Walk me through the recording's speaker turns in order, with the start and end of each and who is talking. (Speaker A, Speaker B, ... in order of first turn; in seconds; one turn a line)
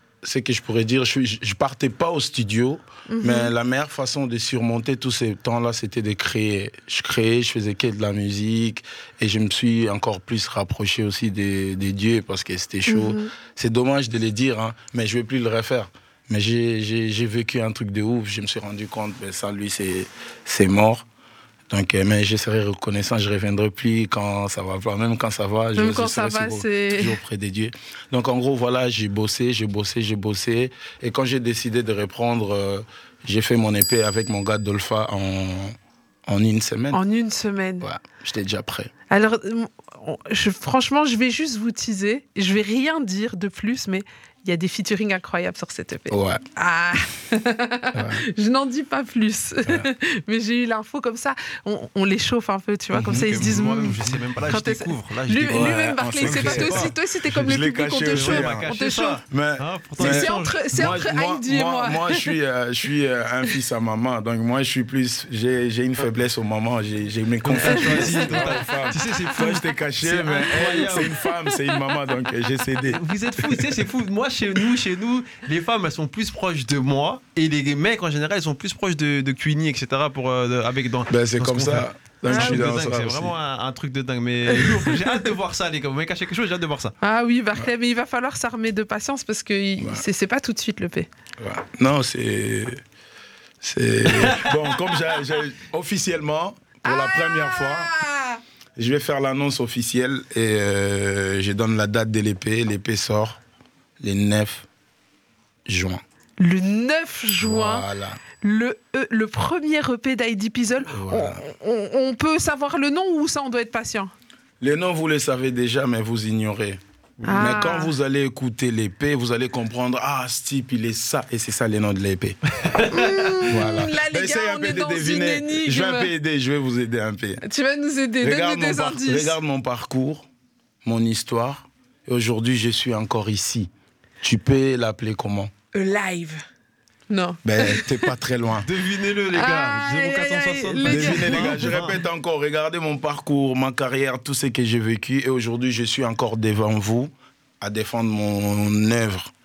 Speaker A: 0.2-21.1
Speaker B: 3.1-3.5
Speaker B: 12.9-13.3
Speaker A: 21.7-37.0
Speaker B: 25.8-27.2
Speaker B: 36.9-37.9
Speaker A: 37.8-38.9
Speaker B: 39.1-59.2
Speaker A: 46.1-46.4
Speaker A: 47.9-48.2
Speaker A: 52.9-54.0
Speaker C: 53.0-57.5
Speaker A: 55.5-58.7
Speaker C: 58.1-60.9
Speaker A: 59.3-73.7
Speaker B: 60.0-62.3
Speaker C: 67.4-71.2
Speaker B: 67.6-69.6
Speaker B: 70.9-71.8
Speaker C: 72.9-86.9
Speaker A: 81.1-83.3
Speaker B: 82.3-82.7
Speaker B: 87.0-91.1
Speaker A: 89.8-90.0
Speaker A: 91.4-92.8
Speaker A: 93.6-98.0
Speaker C: 94.1-94.8
Speaker B: 96.8-98.4
Speaker A: 98.8-103.4
Speaker A: 104.0-104.7
Speaker A: 105.7-106.0
Speaker B: 106.4-107.9
Speaker A: 107.4-108.2
Speaker B: 108.4-114.1
Speaker A: 110.9-111.4
Speaker A: 114.6-122.4
Speaker C: 117.2-117.5
Speaker B: 117.3-118.0
Speaker C: 122.7-123.4
Speaker B: 122.9-126.1
Speaker A: 123.5-127.4
Speaker B: 127.4-129.3
Speaker A: 128.2-130.3
Speaker A: 130.8-133.7
Speaker A: 134.2-135.5
Speaker B: 135.7-136.4
Speaker B: 137.1-138.1
Speaker A: 137.4-138.7
Speaker C: 138.6-142.0
Speaker B: 139.3-141.7
Speaker A: 140.8-149.3